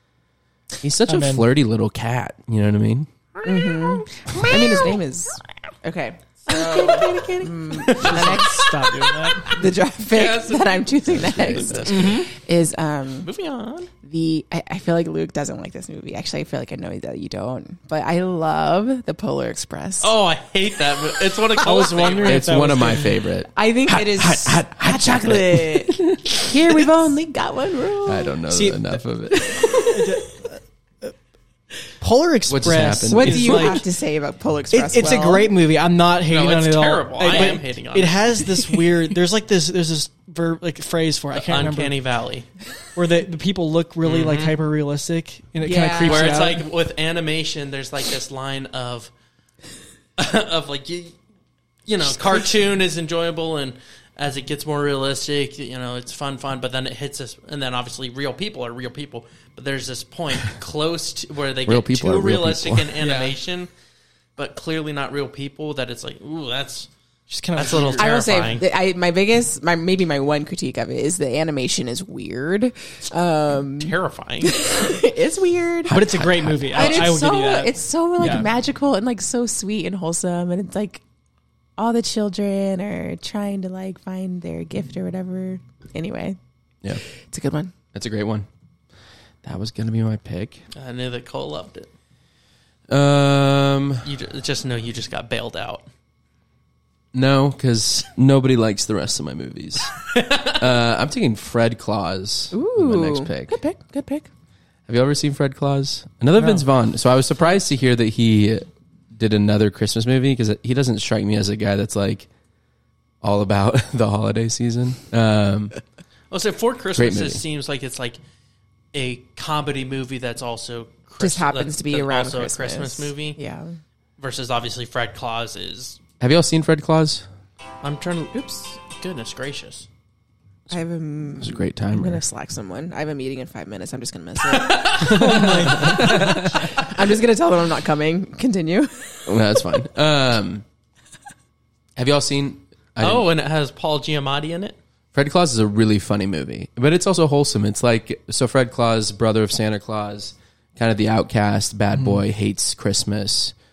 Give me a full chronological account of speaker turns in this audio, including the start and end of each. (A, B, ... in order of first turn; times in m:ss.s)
0:00.8-0:03.1 A
0:01.1-0:01.5 B
0:03.4-0:05.0 C
0:03.4-0:08.7 D
0:06.4-0:08.7 C
0:07.9-0:09.6 B
0:09.4-0:13.3 D
0:09.4-0:12.3 C
0:11.1-0:12.1 A
0:13.2-0:13.9 C
0:14.0-0:20.1 D
0:20.0-0:22.6 C
0:21.6-0:23.2 B
0:22.2-0:26.4 A
0:23.5-0:28.4 D
0:28.0-0:29.7 A
0:28.5-0:29.0 B
0:29.4-0:29.9 D
0:29.7-0:31.1 B
0:32.0-0:33.8 B
0:32.5-0:33.8 A
0:33.1-0:35.5 D
0:34.7-0:42.0 B
0:36.3-0:38.5 C
0:41.3-0:42.5 C
0:42.9-0:46.6 B
0:44.0-0:44.6 C
0:45.6-0:46.4 D
0:46.0-0:49.1 C
0:50.2-0:51.1 C
0:51.8-1:03.7 C
0:52.0-0:52.5 D
1:01.6-1:03.0 A
1:03.0-1:03.4 B
1:04.4-1:06.9 C
1:07.3-1:08.1 B
1:07.5-1:08.7 C
1:08.0-1:16.0 D
1:13.8-1:14.5 C
1:15.8-1:17.1 A
1:15.9-1:18.5 B
1:16.7-1:21.0 D
1:21.8-1:26.4 D
1:27.3-1:27.7 D
1:27.9-1:28.5 A
1:29.4-1:30.6 A
1:30.7-1:31.9 C
1:32.9-1:34.1 A
1:34.0-1:35.8 C
1:37.1-1:39.9 A
1:40.0-1:40.7 C
1:40.5-1:43.6 A
1:42.5-1:44.3 D
1:44.9-1:52.3 A
1:46.4-1:46.6 B
1:53.2-1:55.7 A
1:56.3-1:58.2 C
1:56.9-1:57.4 A
1:58.9-2:03.4 C
2:01.2-2:03.8 D
2:04.2-2:06.0 C
2:06.2-2:07.2 A
2:07.8-2:09.9 C
2:10.7-2:19.1 D
2:11.4-2:12.2 A
2:14.5-2:15.4 C
2:15.0-2:16.4 B
2:15.8-2:16.3 A
2:19.3-2:20.6 A
2:22.0-2:23.2 A
2:23.0-2:24.8 C
2:25.1-2:33.5 A